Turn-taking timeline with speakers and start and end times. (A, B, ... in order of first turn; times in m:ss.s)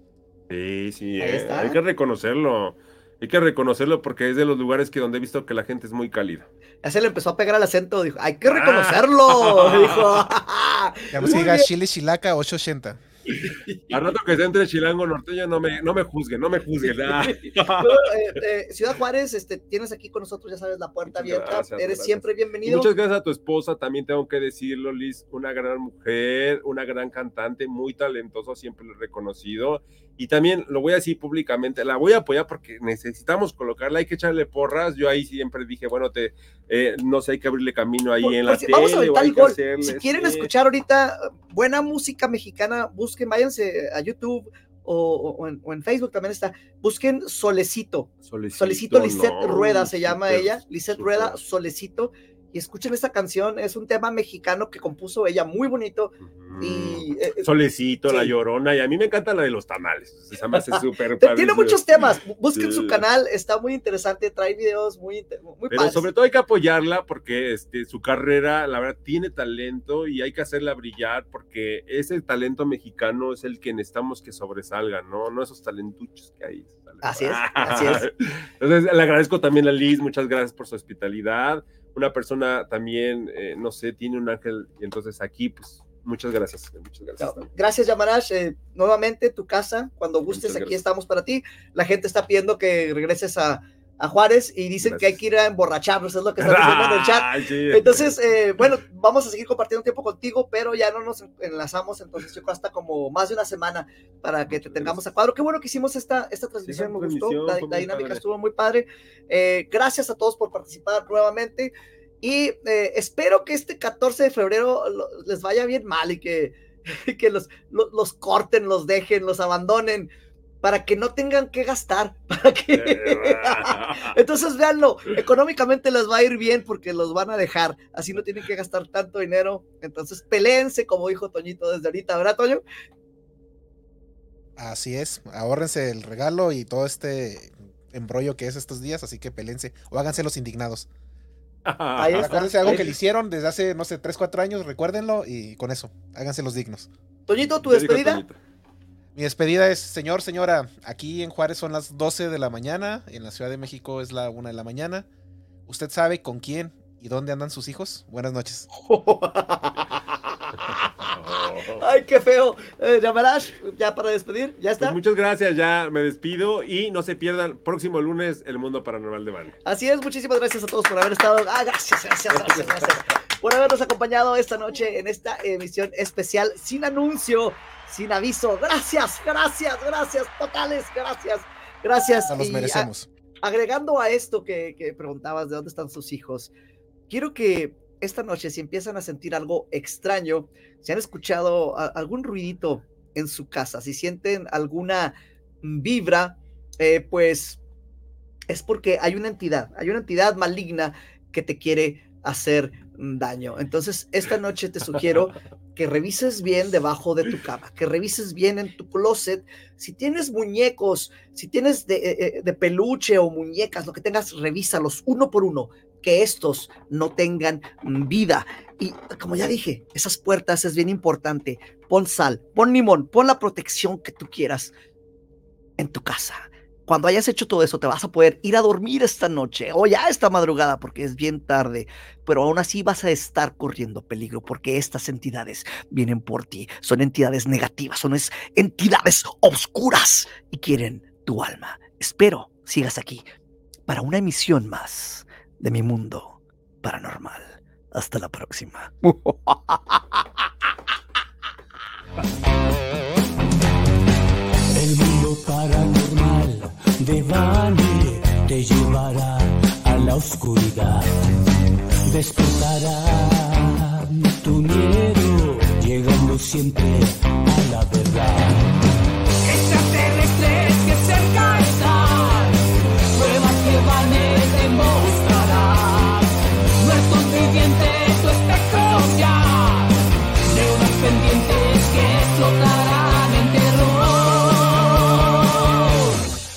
0:00.5-0:06.5 A
0:01.2-0:01.8 B
0:06.8-0:11.7 B
0:08.4-0:10.2 A
0:11.1-0:13.0 C
0:13.4-0:18.1 A
0:13.5-0:13.9 B
0:16.9-0:22.9 B
0:21.1-0:40.5 A
0:38.2-0:57.4 B
0:48.3-0:51.4 A
0:56.2-1:03.0 A
1:00.6-1:06.0 B
1:05.7-1:27.5 A
1:17.0-1:18.0 B
1:27.2-2:00.1 B
1:30.3-1:30.8 A
1:34.8-1:35.2 A
1:36.4-1:38.2 A
1:44.5-1:45.0 A
1:46.6-1:48.2 A
2:00.6-2:12.6 B
2:02.7-2:04.2 A
2:14.6-2:20.9 C
2:21.6-2:22.9 A
2:22.0-2:22.8 B
2:22.1-2:26.9 C
2:27.3-2:28.2 B
2:27.6-2:28.3 A
2:29.1-2:35.0 C
2:35.7-2:38.7 C
2:38.8-2:40.0 B
2:40.6-2:45.0 B
2:41.0-2:41.8 A
2:44.8-2:49.5 A
2:49.6-3:02.9 B
2:52.3-2:52.9 A
3:02.3-3:03.1 C
3:03.4-3:06.5 B
3:07.1-3:17.6 B
3:18.5-3:44.7 B
3:45.8-4:03.2 B
4:03.9-4:10.0 B
4:14.7-4:21.4 D
4:22.1-4:28.9 D
4:29.4-4:46.2 D